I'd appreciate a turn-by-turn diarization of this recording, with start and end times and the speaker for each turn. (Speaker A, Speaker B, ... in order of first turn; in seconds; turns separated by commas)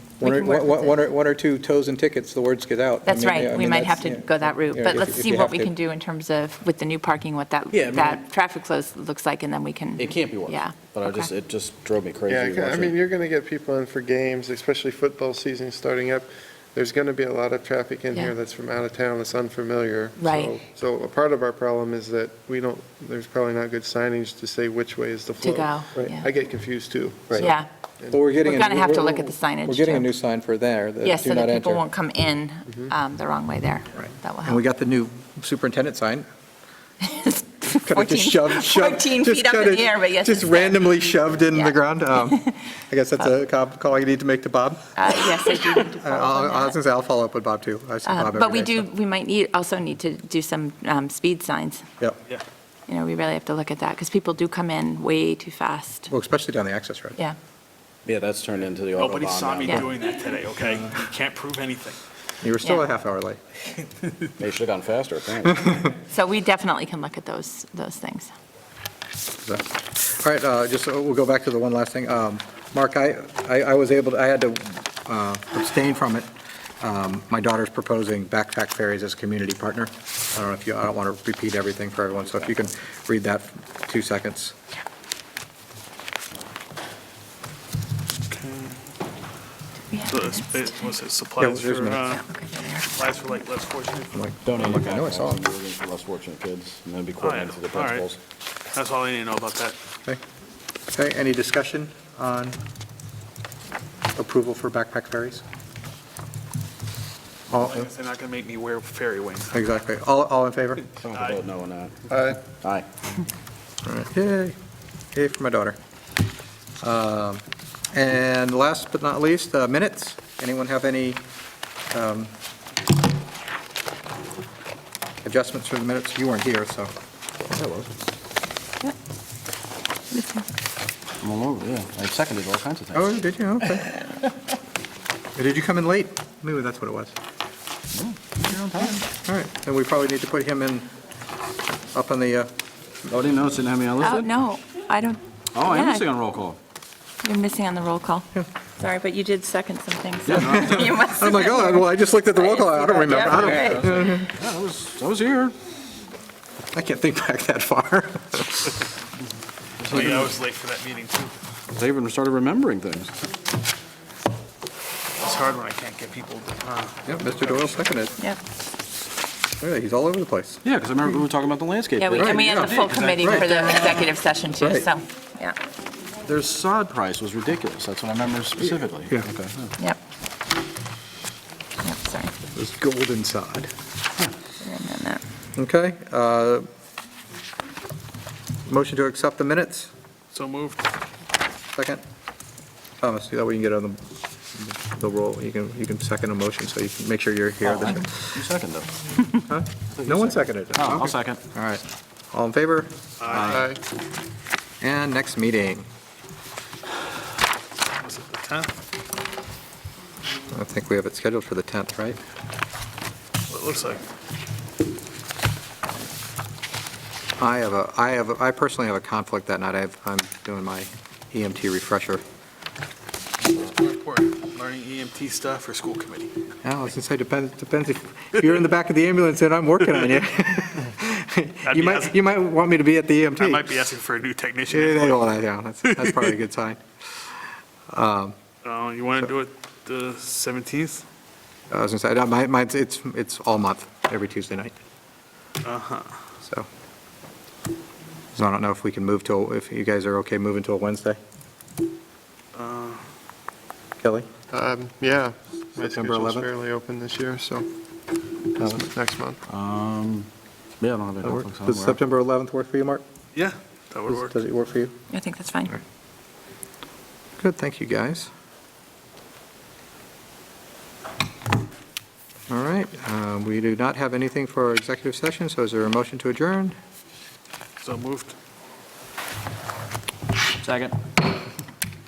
Speaker A: 0.2-5.7, Speaker B: 0.2-1.0, Speaker B: 3.0-11.3, Speaker C: 7.7-8.2, Speaker C: 10.0-12.9, Speaker D: 12.3-28.3, Speaker B: 20.2-20.6, Speaker B: 25.4-26.3, Speaker B: 27.4-27.7, Speaker A: 28.1-31.8, Speaker B: 28.4-30.1, Speaker B: 31.0-34.6, Speaker A: 34.0-36.2, Speaker B: 37.0-40.9, Speaker A: 37.7-48.9, Speaker B: 41.5-41.8, Speaker B: 45.0-46.8, Speaker B: 48.0-51.9, Speaker B: 52.9-56.1, Speaker A: 56.1-57.2, Speaker C: 58.0-60.0, Speaker E: 59.0-62.0, Speaker A: 62.4-63.4, Speaker B: 62.6-62.9, Speaker C: 64.4-65.9, Speaker B: 66.0-68.3, Speaker A: 69.4-76.3, Speaker A: 76.8-84.5, Speaker E: 88.3-88.8, Speaker B: 89.9-90.9, Speaker E: 90.0-92.2, Speaker A: 91.4-92.2, Speaker B: 92.2-93.0, Speaker E: 92.9-94.2, Speaker A: 94.1-95.5, Speaker C: 94.4-98.2, Speaker E: 97.2-98.0, Speaker E: 98.7-99.8, Speaker A: 100.9-102.6, Speaker A: 104.2-105.4, Speaker A: 107.5-107.9, Speaker E: 107.6-109.6, Speaker A: 109.5-110.9, Speaker C: 111.0-112.9, Speaker E: 111.1-111.4, Speaker D: 112.1-112.4, Speaker A: 113.8-114.5, Speaker A: 115.1-115.8, Speaker A: 116.8-117.4, Speaker A: 117.9-121.2, Speaker A: 121.9-122.3, Speaker A: 125.2-126.9, Speaker C: 127.5-128.0, Speaker B: 130.1-130.4, Speaker C: 131.2-133.1, Speaker A: 132.9-134.0, Speaker A: 135.3-137.1, Speaker C: 137.9-139.0, Speaker A: 139.0-140.9, Speaker A: 141.9-142.5, Speaker C: 143.1-144.4, Speaker B: 144.0-146.1, Speaker C: 145.5-146.6, Speaker B: 147.2-153.8, Speaker C: 150.2-151.1, Speaker A: 150.4-154.3, Speaker C: 153.1-155.5, Speaker A: 156.7-158.8, Speaker C: 159.8-160.3, Speaker E: 160.0-161.3, Speaker C: 161.7-163.2, Speaker E: 165.2-167.8, Speaker A: 167.1-168.2, Speaker A: 169.6-170.6, Speaker C: 170.6-174.2, Speaker B: 172.0-175.6, Speaker A: 172.2-173.6, Speaker A: 174.6-174.8, Speaker C: 176.2-179.8, Speaker B: 181.8-182.3, Speaker A: 182.5-183.7, Speaker B: 184.6-185.2, Speaker A: 185.6-186.7, Speaker A: 188.7-189.9, Speaker E: 190.3-190.8, Speaker A: 191.7-192.0, Speaker A: 193.0-194.0, Speaker A: 194.5-198.4, Speaker C: 197.6-199.2, Speaker A: 199.5-203.7, Speaker C: 199.9-201.4, Speaker E: 203.2-203.5, Speaker D: 203.4-203.8, Speaker A: 204.8-205.8, Speaker E: 208.0-208.8, Speaker A: 210.5-212.2, Speaker E: 213.5-214.0, Speaker A: 217.4-222.2, Speaker E: 223.5-226.3, Speaker A: 226.6-233.9, Speaker E: 231.6-232.1, Speaker E: 233.4-235.2, Speaker A: 234.7-236.8, Speaker E: 235.8-236.3, Speaker A: 237.9-238.4, Speaker E: 238.6-241.0, Speaker A: 241.7-244.7, Speaker E: 245.6-246.1, Speaker A: 248.3-251.2, Speaker E: 252.5-253.0, Speaker A: 254.0-254.3, Speaker D: 254.5-257.6, Speaker A: 255.8-256.5, Speaker D: 258.5-259.4, Speaker C: 259.5-260.3, Speaker C: 260.8-262.0, Speaker A: 261.2-263.0, Speaker E: 263.3-264.3, Speaker A: 264.1-264.9, Speaker B: 265.1-265.8, Speaker A: 267.4-268.3, Speaker A: 272.5-276.7, Speaker E: 277.8-278.4, Speaker C: 280.6-280.9